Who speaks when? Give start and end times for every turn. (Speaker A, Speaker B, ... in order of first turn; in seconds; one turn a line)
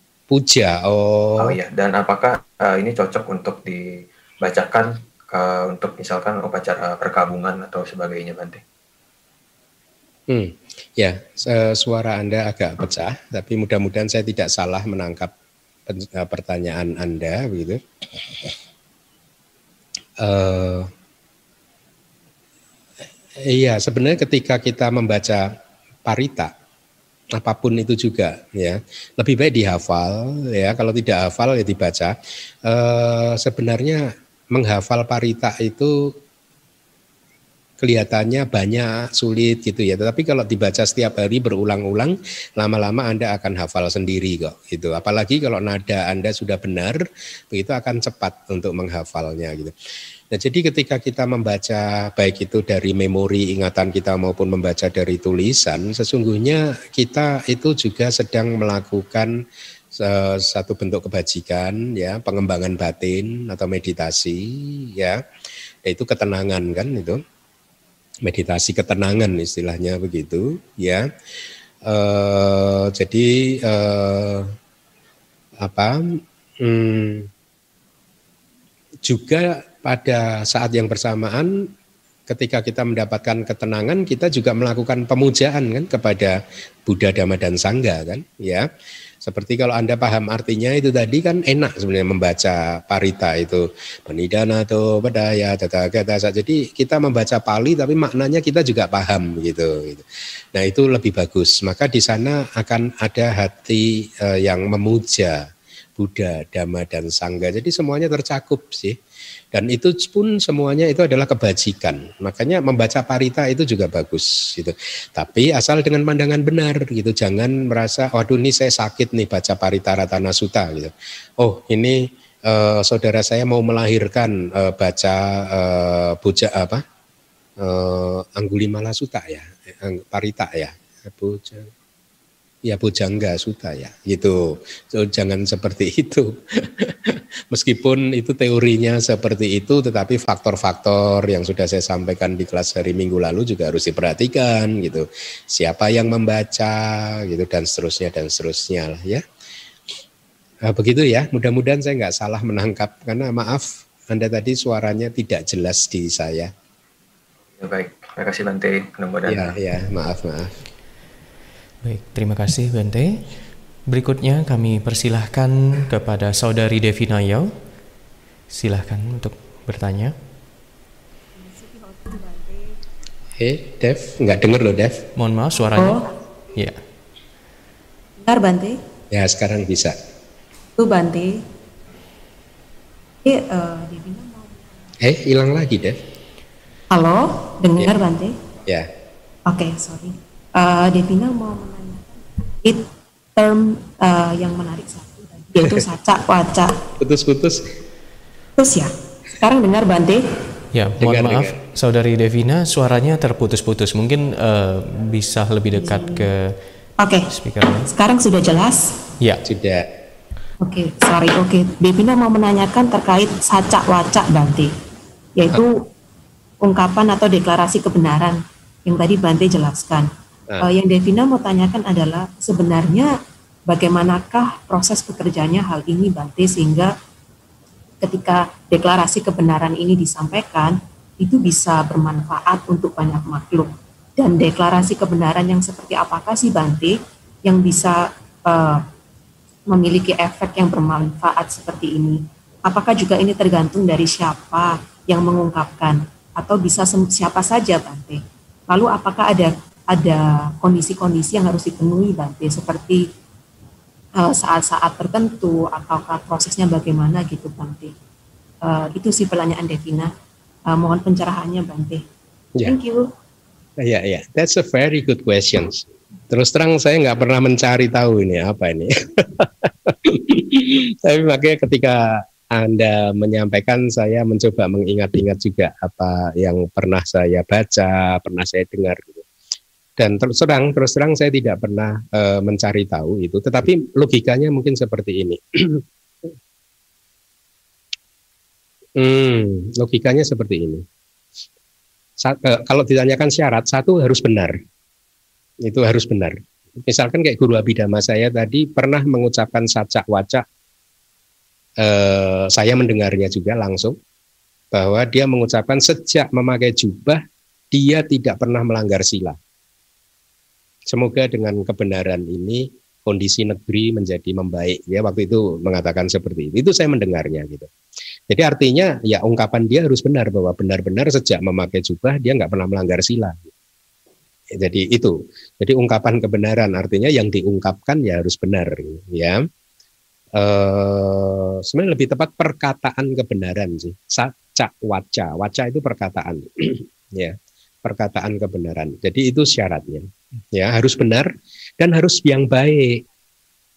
Speaker A: 0.3-1.5
Speaker B: 1.4-8.6
Speaker A: 10.3-15.3
Speaker A: 15.9-17.8
Speaker A: 20.2-20.9
Speaker A: 23.4-25.5
Speaker A: 26.1-26.5
Speaker A: 27.4-32.1
Speaker A: 32.6-36.1
Speaker A: 37.8-47.0
Speaker A: 47.5-49.7
Speaker A: 50.3-59.3
Speaker A: 60.0-65.2
Speaker A: 65.8-67.2
Speaker A: 68.2-71.0
Speaker A: 71.8-74.5
Speaker A: 75.6-77.3
Speaker A: 79.0-81.5
Speaker A: 82.3-88.7
Speaker A: 89.2-105.5
Speaker A: 106.0-109.0
Speaker A: 109.5-126.8
Speaker A: 127.6-131.7
Speaker A: 132.7-149.2
Speaker A: 150.7-156.5
Speaker B: 157.6-159.6
Speaker A: 159.3-160.5
Speaker C: 161.8-167.5
Speaker C: 168.5-170.2
Speaker D: 171.4-172.6
Speaker A: 173.4-175.0
Speaker C: 175.2-176.8
Speaker D: 175.8-176.1
Speaker D: 178.2-178.8
Speaker A: 179.1-179.9
Speaker D: 180.8-181.4
Speaker D: 183.2-184.8
Speaker A: 185.0-186.0
Speaker D: 186.9-188.3
Speaker D: 189.5-196.8
Speaker A: 197.0-197.7
Speaker D: 198.6-200.2
Speaker C: 200.7-206.6
Speaker A: 201.0-201.6
Speaker D: 205.8-206.2
Speaker D: 207.0-207.3
Speaker C: 207.3-207.9
Speaker D: 207.8-208.9
Speaker C: 209.2-209.4
Speaker A: 209.4-209.9
Speaker D: 210.6-214.7
Speaker D: 215.4-215.8
Speaker D: 216.6-220.1
Speaker D: 220.6-223.1
Speaker D: 223.7-226.9
Speaker D: 228.0-238.8
Speaker D: 239.7-253.0
Speaker D: 254.2-257.9
Speaker D: 258.6-260.1
Speaker D: 260.7-262.0
Speaker D: 262.6-263.1
Speaker A: 263.8-279.2
Speaker A: 280.0-285.8
Speaker A: 289.0-290.8
Speaker A: 292.2-294.5
Speaker A: 295.6-300.4
Speaker A: 301.8-304.0
Speaker A: 304.7-307.2
Speaker A: 307.7-309.4
Speaker A: 310.9-317.7
Speaker A: 318.3-323.4
Speaker A: 324.6-329.4
Speaker A: 330.4-343.0